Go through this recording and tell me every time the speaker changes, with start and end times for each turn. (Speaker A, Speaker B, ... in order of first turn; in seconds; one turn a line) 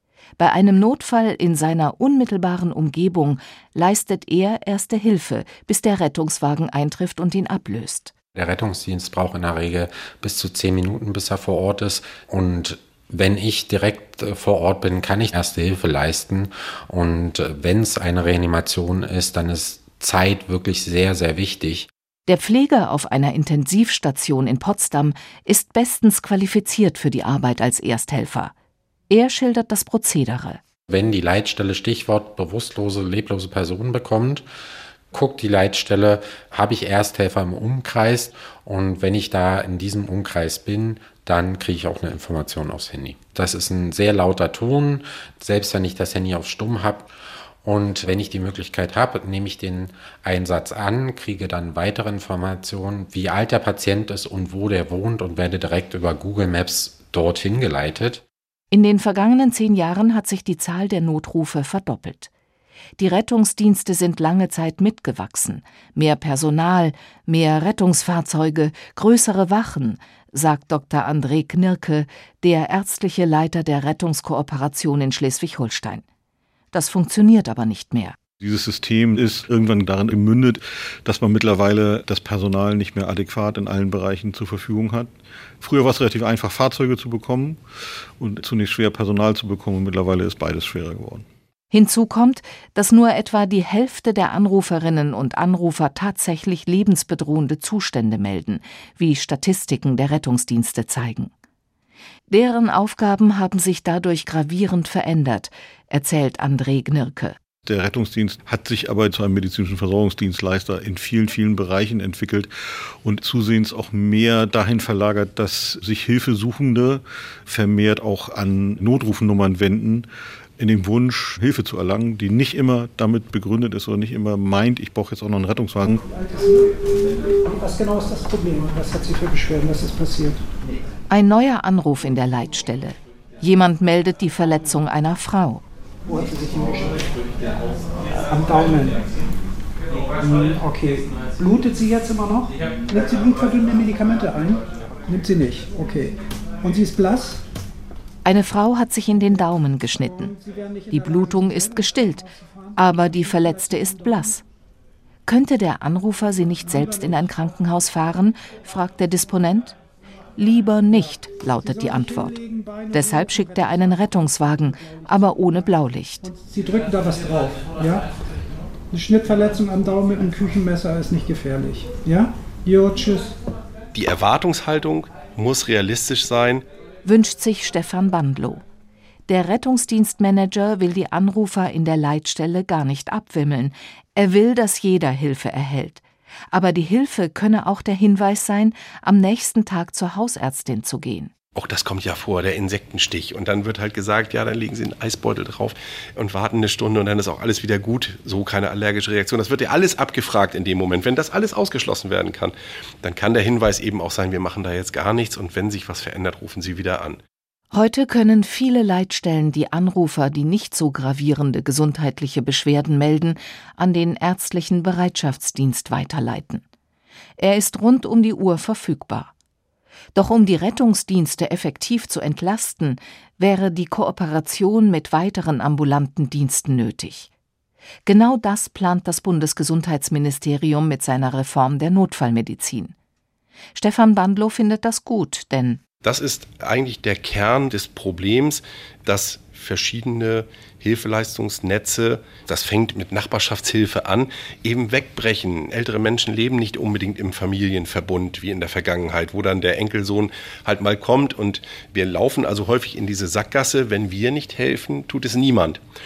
Speaker A: 0.4-8.1
Speaker B: 8.3-21.9
Speaker A: 22.3-28.5
Speaker A: 29.1-30.6
Speaker B: 30.9-34.5
Speaker B: 35.1-47.1
Speaker B: 47.6-58.2
Speaker A: 58.7-62.3
Speaker A: 63.0-76.0
Speaker A: 76.7-78.2
Speaker C: 78.4-87.6
Speaker C: 88.2-91.3
Speaker A: 91.7-101.3
Speaker A: 102.3-107.4
Speaker C: 107.6-112.5
Speaker C: 113.0-120.1
Speaker C: 120.6-126.0
Speaker D: 126.1-126.7
Speaker D: 127.5-130.4
Speaker A: 131.1-135.6
Speaker D: 136.1-137.1
Speaker D: 138.3-139.1
Speaker D: 140.2-147.4
Speaker A: 148.2-150.3
Speaker D: 150.2-154.3
Speaker A: 150.9-154.4
Speaker A: 155.3-159.8
Speaker D: 156.7-157.2
Speaker A: 160.4-162.4
Speaker D: 161.5-164.0
Speaker A: 162.9-166.3
Speaker D: 166.2-168.1
Speaker D: 168.9-173.4
Speaker E: 173.9-176.6
Speaker A: 177.0-178.6
Speaker A: 179.3-191.3
Speaker E: 191.6-207.2
Speaker A: 207.7-216.6
Speaker A: 217.4-219.3
Speaker A: 220.2-227.3
Speaker A: 228.1-232.9
Speaker A: 233.8-235.8
Speaker E: 236.0-255.8